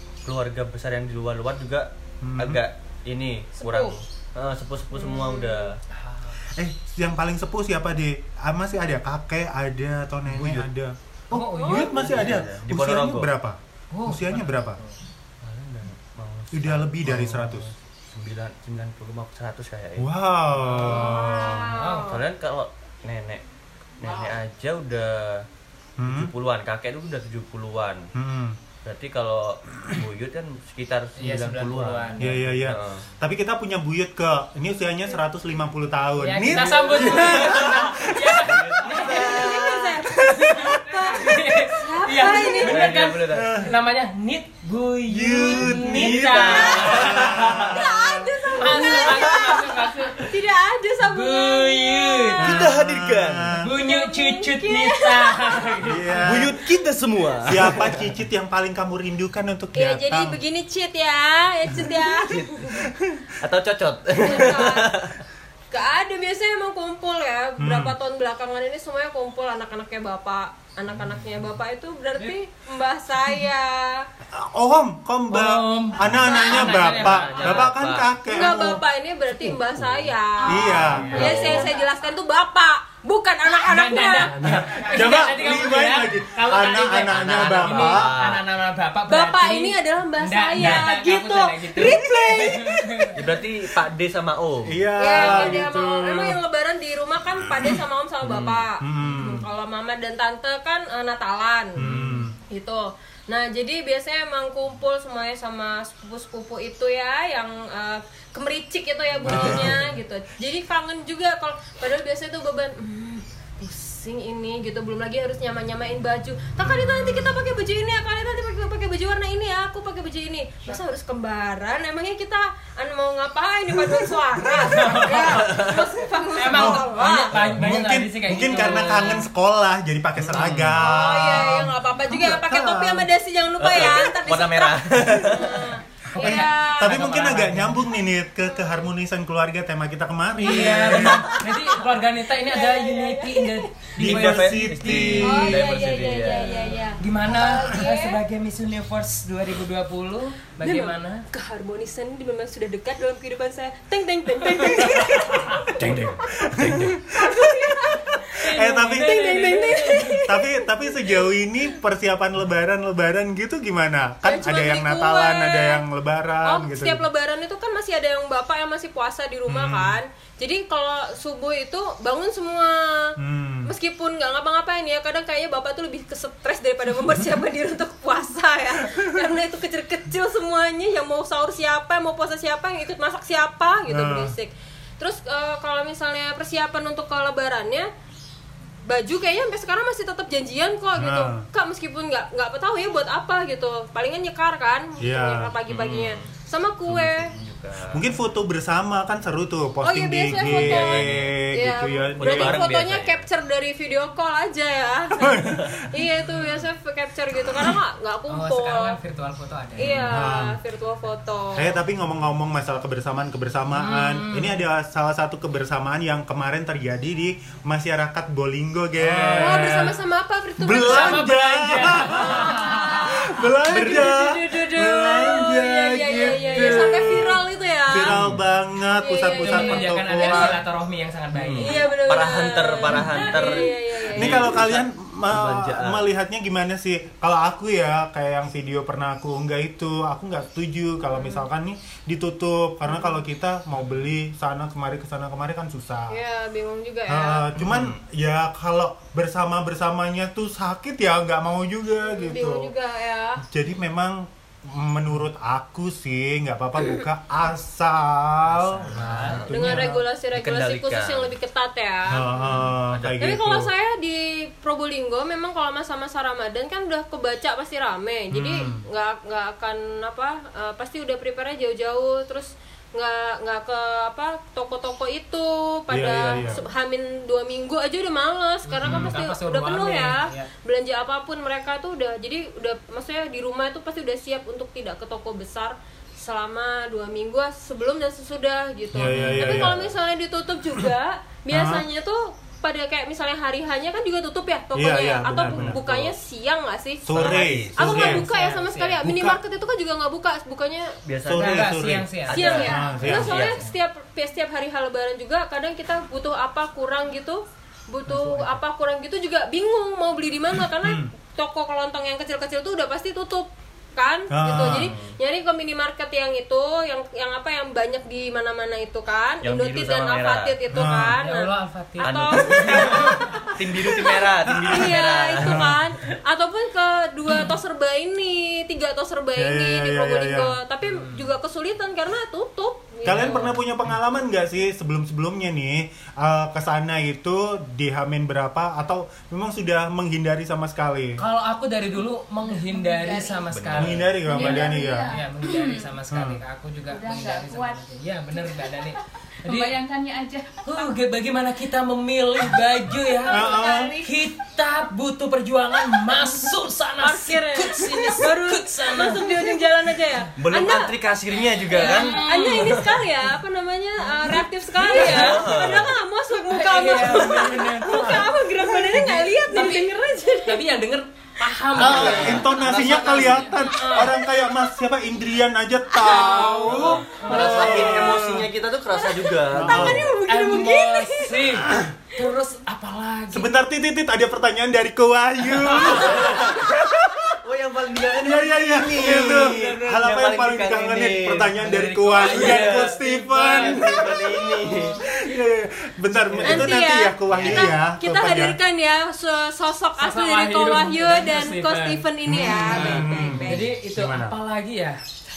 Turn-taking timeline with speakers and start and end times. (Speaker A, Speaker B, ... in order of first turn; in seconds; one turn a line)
Speaker A: 0.2-5.8
Speaker B: 2.2-2.6
Speaker C: 3.6-4.0
Speaker C: 4.9-5.7
Speaker D: 5.9-6.4
Speaker B: 6.5-14.8
Speaker A: 10.3-10.7
Speaker D: 11.3-12.4
Speaker C: 11.6-11.9
Speaker A: 11.7-13.3
Speaker D: 13.9-15.0
Speaker A: 15.4-20.1
Speaker B: 16.5-17.7
Speaker B: 20.0-21.7
Speaker D: 20.6-21.2
Speaker C: 20.8-22.2
Speaker A: 21.3-23.4
Speaker D: 21.7-22.1
Speaker A: 24.0-25.4
Speaker B: 26.0-26.3
Speaker A: 26.0-28.1
Speaker B: 28.1-28.6
Speaker A: 28.8-33.0
Speaker D: 31.2-32.3
Speaker B: 32.2-38.5
Speaker D: 36.2-39.6
Speaker A: 36.5-40.2
Speaker C: 39.0-43.0
Speaker D: 40.2-47.7
Speaker A: 42.4-43.6
Speaker B: 43.3-43.7
Speaker B: 45.1-48.3
Speaker A: 45.8-47.8
Speaker C: 46.5-52.6
Speaker D: 48.6-50.2
Speaker A: 49.2-49.5
Speaker D: 51.0-52.5
Speaker A: 52.4-53.5
Speaker B: 52.4-53.6
Speaker D: 53.6-56.5
Speaker C: 53.7-55.8
Speaker B: 55.8-56.5
Speaker A: 56.2-58.1
Speaker B: 57.4-60.4
Speaker C: 59.7-62.9
Speaker A: 62.2-65.2
Speaker C: 64.2-64.9
Speaker C: 65.7-74.0
Speaker B: 67.6-68.0
Speaker B: 74.3-78.8
Speaker D: 75.3-77.7
Speaker A: 76.1-78.6
Speaker C: 76.3-76.7
Speaker C: 78.3-84.4
Speaker A: 79.3-80.1
Speaker B: 80.5-81.5
Speaker A: 80.7-81.7
Speaker D: 80.8-81.2
Speaker E: 81.2-81.8
Speaker D: 83.7-93.2
Speaker A: 84.4-84.8
Speaker B: 84.4-88.1
Speaker A: 87.0-88.4
Speaker C: 89.1-93.1
Speaker B: 91.8-92.6
Speaker A: 93.2-95.6
Speaker B: 94.7-96.4
Speaker C: 94.9-101.8
Speaker B: 97.5-97.8
Speaker A: 98.2-98.6
Speaker B: 98.8-99.4
Speaker B: 101.8-102.3
Speaker A: 101.8-102.3
Speaker C: 102.5-127.3
Speaker B: 109.2-109.8
Speaker A: 109.3-109.7
Speaker B: 124.5-125.5
Speaker D: 124.6-125.4
Speaker A: 125.1-125.9
Speaker D: 126.3-129.3
Speaker B: 126.5-133.1
Speaker A: 130.2-130.8
Speaker D: 130.3-130.6
Speaker C: 130.8-137.1
Speaker A: 133.6-135.7
Speaker B: 136.1-141.3
Speaker D: 136.2-137.8
Speaker C: 138.5-138.8
Speaker D: 140.4-145.2
Speaker A: 140.5-141.4
Speaker C: 141.6-143.8
Speaker B: 144.0-145.7
Speaker A: 144.0-146.7
Speaker C: 145.2-148.2
Speaker D: 147.0-151.2
Speaker C: 150.6-155.8
Speaker B: 154.7-159.2
Speaker D: 155.3-155.6
Speaker A: 155.8-157.0
Speaker C: 157.1-161.3
Speaker D: 158.4-160.2
Speaker B: 160.2-167.1
Speaker C: 164.2-165.8
Speaker C: 166.4-187.9
Speaker B: 169.5-170.0
Speaker B: 173.2-173.7
Speaker B: 178.9-179.3
Speaker B: 183.9-184.3
Speaker C: 188.8-197.3
Speaker B: 190.9-191.4
Speaker B: 195.0-195.5
Speaker A: 195.7-196.3
Speaker A: 196.8-198.1
Speaker B: 197.9-202.6
Speaker C: 199.8-209.0
Speaker A: 200.4-201.3
Speaker A: 202.2-203.3
Speaker B: 205.1-205.8
Speaker D: 208.3-210.0
Speaker C: 209.8-211.8
Speaker B: 210.1-210.6
Speaker B: 211.6-220.0
Speaker D: 213.7-214.6
Speaker D: 219.0-219.7
Speaker C: 219.3-221.3
Speaker B: 220.6-230.6
Speaker D: 220.8-223.2
Speaker C: 222.2-228.2
Speaker A: 223.7-224.1
Speaker D: 226.1-226.9
Speaker A: 228.0-228.4
Speaker C: 228.9-230.6
Speaker D: 229.4-231.9
Speaker A: 231.3-236.1
Speaker C: 231.6-234.5
Speaker D: 233.1-233.4
Speaker B: 234.1-246.2
Speaker C: 241.2-241.4
Speaker C: 242.9-243.2
Speaker C: 246.1-247.5
Speaker B: 247.1-252.7
Speaker A: 247.6-248.0
Speaker C: 252.1-253.4
Speaker B: 253.5-260.0
Speaker A: 258.6-259.5
Speaker D: 258.9-259.4
Speaker C: 259.5-262.2
Speaker A: 260.3-261.3
Speaker B: 262.1-263.7
Speaker D: 262.4-262.6
Speaker A: 262.9-263.2
Speaker C: 263.1-297.1
Speaker B: 268.3-268.8
Speaker B: 275.9-276.6
Speaker D: 278.6-280.5
Speaker B: 278.8-279.1
Speaker B: 288.9-289.9
Speaker A: 288.9-289.9
Speaker B: 291.5-291.8
Speaker B: 294.7-295.8
Speaker A: 295.3-296.1
Speaker B: 297.0-298.2
Speaker A: 297.1-298.0
Speaker C: 297.8-301.0
Speaker D: 297.8-299.0
Speaker B: 299.0-299.4
Speaker A: 301.1-301.7
Speaker B: 301.2-303.4
Speaker D: 301.3-303.7
Speaker A: 302.3-303.6
Speaker C: 302.3-333.5
Speaker D: 308.1-308.6
Speaker B: 310.8-311.1
Speaker B: 314.3-314.9
Speaker A: 314.6-315.1
Speaker A: 319.4-320.6
Speaker B: 320.7-321.2
Speaker D: 321.2-323.4
Speaker A: 322.0-325.8
Speaker B: 324.5-324.9
Speaker B: 325.4-325.8
Speaker B: 329.4-330.5
Speaker D: 330.8-331.3
Speaker B: 333.0-341.2
Speaker D: 333.0-333.5
Speaker D: 341.2-349.8
Speaker E: 342.4-343.5
Speaker A: 343.5-344.1
Speaker B: 343.7-345.1
Speaker E: 344.2-345.9
Speaker B: 346.1-346.4
Speaker E: 346.9-347.8
Speaker E: 348.4-348.9
Speaker E: 349.4-351.0
Speaker D: 350.6-353.5
Speaker E: 353.1-353.9
Speaker B: 353.3-354.0
Speaker C: 353.3-354.1
Speaker D: 354.0-359.5
Speaker C: 357.0-370.6
Speaker A: 360.4-363.0
Speaker D: 361.7-362.9
Speaker D: 364.1-365.5
Speaker A: 364.9-365.9
Speaker D: 366.5-368.3
Speaker B: 367.9-368.2
Speaker B: 368.8-369.2
Speaker D: 369.4-374.3
Speaker B: 371.7-378.5
Speaker A: 371.8-373.4
Speaker C: 376.0-376.6
Speaker A: 376.0-380.1
Speaker D: 377.1-378.0
Speaker C: 378.9-381.5
Speaker B: 379.6-380.1
Speaker D: 380.2-383.5
Speaker B: 383.3-387.4
Speaker D: 385.6-386.5
Speaker A: 386.0-386.8
Speaker A: 387.4-391.5
Speaker B: 388.1-398.6
Speaker D: 391.6-393.9
Speaker A: 392.2-393.0
Speaker A: 393.5-395.0
Speaker A: 396.3-396.7
Speaker C: 396.4-403.7
Speaker A: 397.3-397.6
Speaker D: 400.0-405.0
Speaker B: 402.2-404.3